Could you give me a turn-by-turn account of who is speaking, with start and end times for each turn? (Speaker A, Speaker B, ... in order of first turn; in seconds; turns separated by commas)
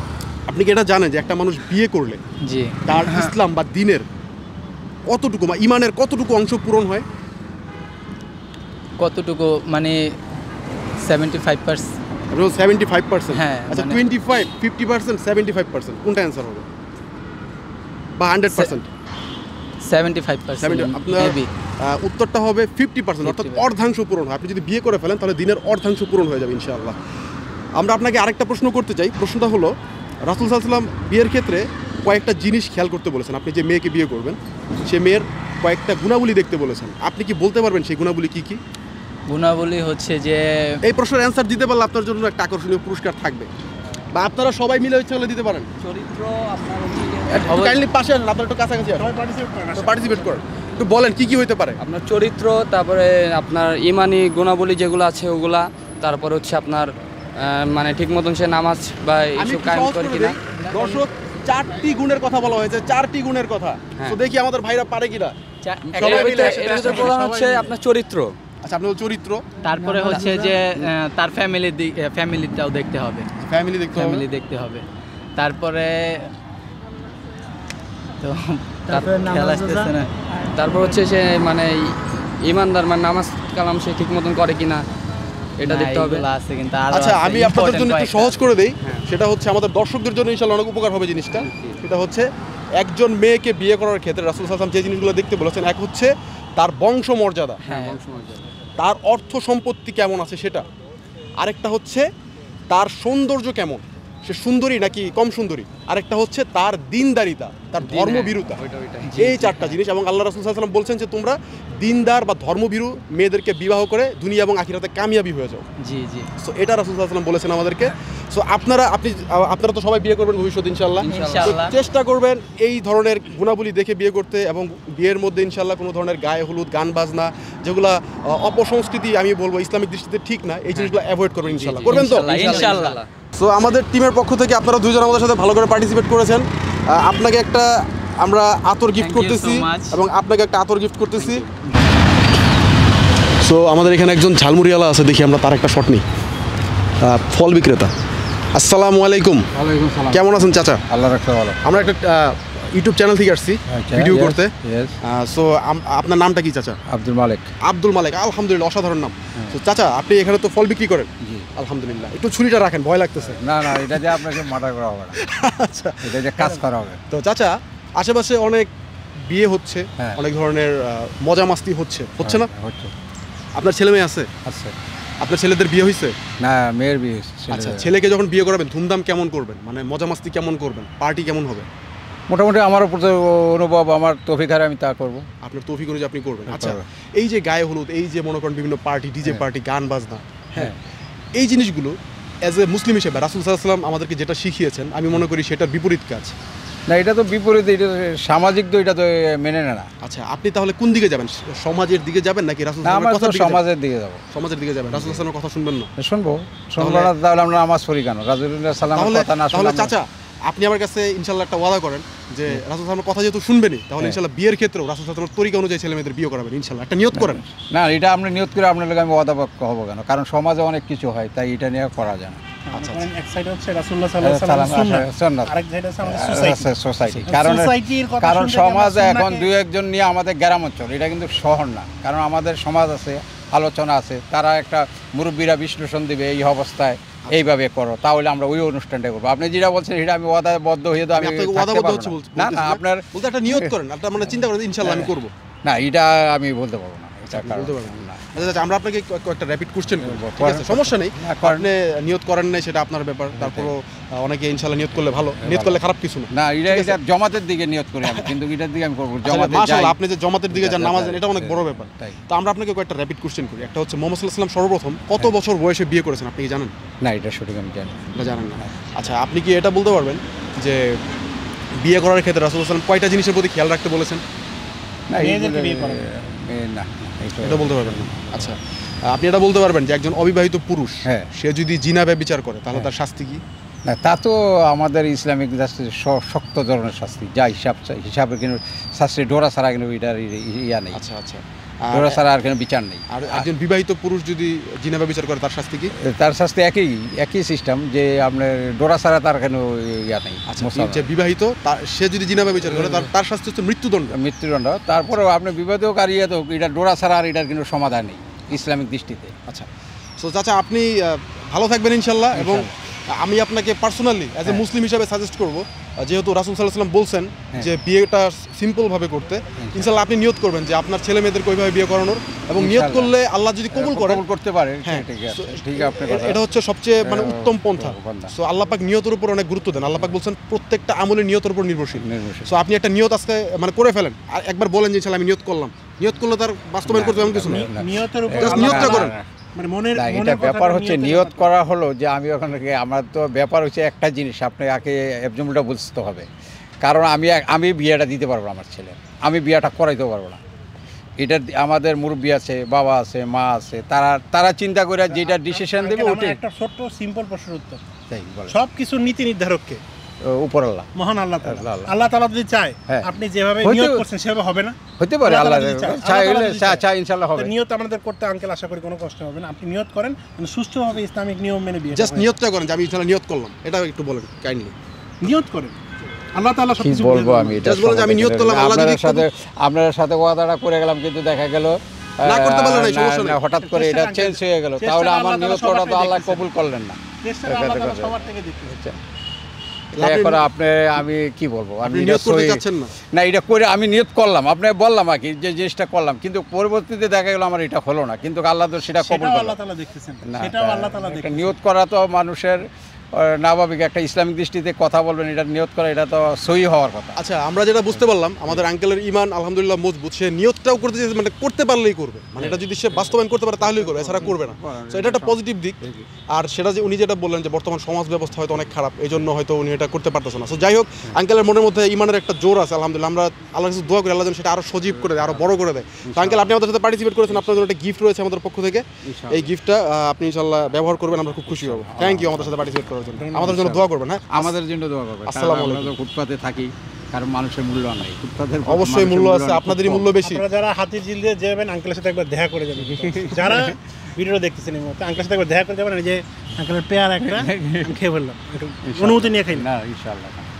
Speaker A: 0.5-2.2, Speaker B: 2.4-3.3, Speaker A: 2.8-4.0, Speaker A: 5.0-7.0, Speaker B: 9.0-10.1, Speaker B: 11.0-12.0, Speaker A: 12.3-16.7, Speaker B: 13.3-14.0, Speaker A: 18.2-18.9, Speaker B: 19.9-21.5, Speaker A: 20.6-26.9, Speaker B: 23.2-23.7, Speaker A: 27.7-38.6, Speaker B: 39.3-40.8, Speaker A: 40.8-43.5, Speaker A: 44.1-45.7, Speaker C: 45.9-47.3, Speaker B: 47.1-47.8, Speaker A: 47.3-49.1, Speaker D: 49.0-50.3, Speaker A: 49.8-51.8, Speaker C: 51.8-60.4, Speaker A: 59.4-65.3, Speaker B: 60.6-61.0, Speaker B: 65.6-67.7, Speaker A: 66.0-67.1, Speaker C: 66.0-68.4, Speaker A: 68.6-69.5, Speaker B: 69.6-73.3, Speaker C: 70.0-70.4, Speaker A: 73.4-74.2, Speaker B: 73.9-74.8, Speaker B: 75.4-76.3, Speaker B: 78.2-80.1, Speaker C: 78.9-79.3, Speaker C: 80.5-84.8, Speaker C: 85.6-86.3, Speaker B: 85.6-89.0, Speaker A: 86.9-97.6, Speaker B: 91.4-91.8, Speaker B: 97.6-98.0, Speaker A: 98.8-100.6, Speaker A: 101.4-102.1, Speaker A: 102.7-108.6, Speaker B: 107.8-108.4, Speaker C: 108.5-109.1, Speaker B: 109.0-109.8, Speaker A: 109.1-115.7, Speaker B: 115.8-116.3, Speaker A: 116.4-132.7, Speaker B: 121.0-121.7, Speaker C: 121.1-121.5, Speaker B: 130.8-133.0, Speaker C: 131.9-133.1, Speaker A: 133.4-141.4, Speaker B: 139.0-140.0, Speaker B: 141.2-141.5, Speaker A: 143.4-146.0, Speaker A: 147.0-147.9, Speaker A: 148.5-149.5, Speaker E: 149.5-150.3, Speaker A: 150.1-150.8, Speaker E: 150.9-151.9, Speaker A: 151.6-156.8, Speaker E: 153.7-155.0, Speaker E: 156.9-157.5, Speaker A: 157.6-164.4, Speaker E: 161.2-161.5, Speaker E: 163.2-165.2, Speaker A: 165.2-168.7, Speaker E: 166.0-167.0, Speaker A: 169.3-172.5, Speaker E: 172.2-172.9, Speaker A: 173.5-174.3, Speaker E: 174.4-174.7, Speaker A: 175.2-176.1, Speaker E: 176.4-177.9, Speaker A: 177.5-181.7, Speaker E: 182.3-185.2, Speaker A: 185.4-190.8, Speaker E: 186.5-186.8, Speaker A: 191.3-196.3, Speaker E: 196.9-199.9, Speaker A: 200.0-203.6, Speaker E: 202.8-204.2, Speaker A: 204.3-205.9, Speaker E: 204.9-205.2, Speaker E: 206.0-209.9, Speaker A: 206.8-207.1, Speaker A: 208.9-217.4, Speaker E: 217.2-222.4, Speaker D: 222.7-226.7, Speaker A: 222.7-223.1, Speaker E: 224.2-225.5, Speaker E: 226.1-243.8, Speaker A: 227.1-227.4, Speaker D: 227.2-229.5, Speaker A: 241.1-245.3, Speaker E: 244.8-248.2, Speaker A: 247.3-257.0, Speaker E: 249.9-251.7, Speaker E: 253.3-253.7, Speaker E: 255.0-260.0, Speaker A: 258.1-258.3, Speaker A: 259.2-266.7, Speaker E: 260.5-262.2, Speaker E: 267.0-268.8, Speaker A: 268.1-271.0, Speaker A: 271.8-274.2, Speaker E: 275.1-278.6, Speaker D: 275.2-276.0, Speaker A: 277.4-283.4, Speaker E: 283.8-291.0, Speaker A: 290.9-292.2, Speaker E: 291.9-293.5, Speaker A: 293.1-295.9, Speaker E: 296.0-301.1, Speaker A: 300.5-304.1, Speaker E: 302.6-303.1, Speaker E: 304.1-309.3, Speaker A: 310.2-324.2, Speaker E: 312.3-312.7, Speaker E: 319.6-320.0, Speaker E: 322.6-323.1, Speaker E: 323.7-326.4, Speaker A: 324.8-337.8, Speaker E: 327.0-328.3, Speaker E: 332.0-332.5, Speaker E: 336.8-339.2, Speaker D: 337.7-341.5, Speaker A: 338.3-339.1, Speaker E: 339.9-346.3, Speaker E: 346.8-350.4, Speaker E: 351.2-356.4, Speaker D: 355.1-357.8, Speaker E: 358.1-358.6, Speaker D: 358.5-359.8, Speaker E: 360.2-360.9, Speaker D: 360.9-366.8, Speaker E: 361.4-361.9, Speaker E: 363.6-364.0, Speaker E: 365.0-367.5, Speaker D: 367.4-372.3, Speaker A: 371.9-374.7, Speaker D: 375.2-375.8, Speaker D: 376.3-377.6, Speaker E: 376.8-388.1, Speaker A: 377.6-379.2, Speaker A: 382.2-383.4, Speaker D: 383.5-386.4, Speaker D: 387.2-388.8, Speaker E: 388.7-389.0, Speaker A: 389.9-390.4, Speaker E: 390.0-399.6, Speaker A: 391.8-392.9, Speaker D: 399.0-401.5, Speaker E: 400.2-407.2, Speaker A: 407.1-415.8, Speaker E: 407.9-408.6, Speaker E: 412.4-416.0, Speaker A: 416.3-434.5, Speaker E: 424.9-425.5, Speaker E: 426.0-426.5, Speaker E: 427.3-427.7, Speaker E: 429.0-429.5, Speaker E: 431.5-432.7, Speaker D: 433.2-433.5, Speaker E: 433.3-440.1, Speaker A: 435.3-435.9, Speaker A: 438.7-440.4, Speaker D: 440.2-449.7, Speaker E: 442.9-443.8, Speaker E: 447.2-447.9, Speaker E: 448.8-450.5